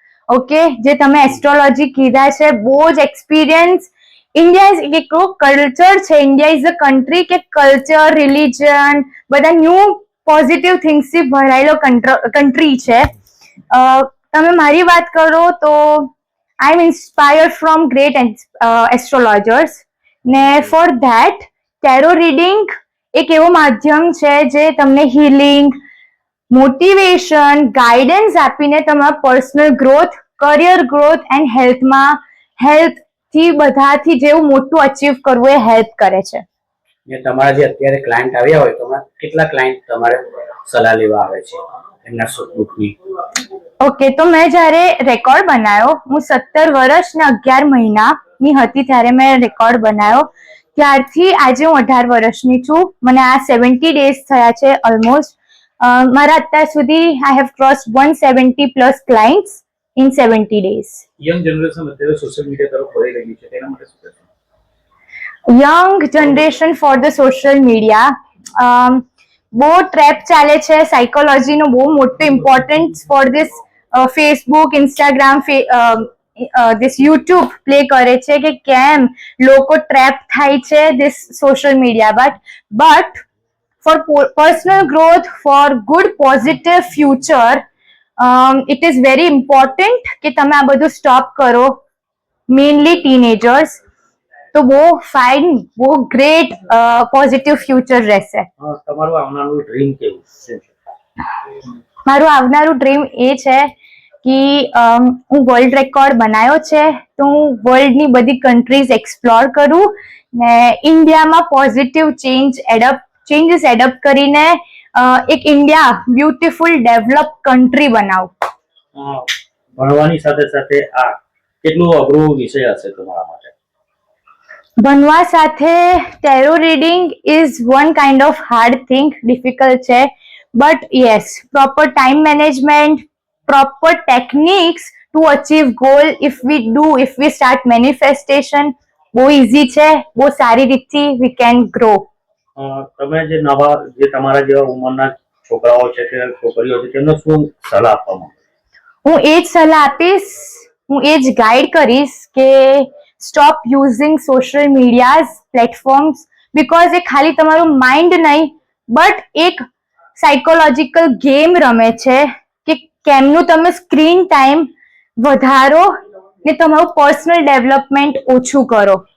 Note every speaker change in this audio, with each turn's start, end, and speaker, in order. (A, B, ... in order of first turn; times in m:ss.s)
0:00.3-0:13.1 A
0:13.7-0:25.7 A
0:26.5-0:36.4 A
0:37.1-0:43.0 B
0:43.8-1:01.0 A
1:01.2-1:04.2 C
1:05.5-1:23.2 A
1:23.8-1:27.6 A
1:28.2-1:31.8 A
1:32.5-1:33.8 A
1:34.5-1:38.5 A
1:38.6-1:40.7 C
1:42.1-1:43.7 A
1:44.2-1:58.3 A
1:59.0-2:03.5 C
2:04.8-2:22.1 A
2:22.6-2:28.4 C
2:29.0-2:39.6 A
2:40.2-2:45.9 A
2:46.4-2:49.0 A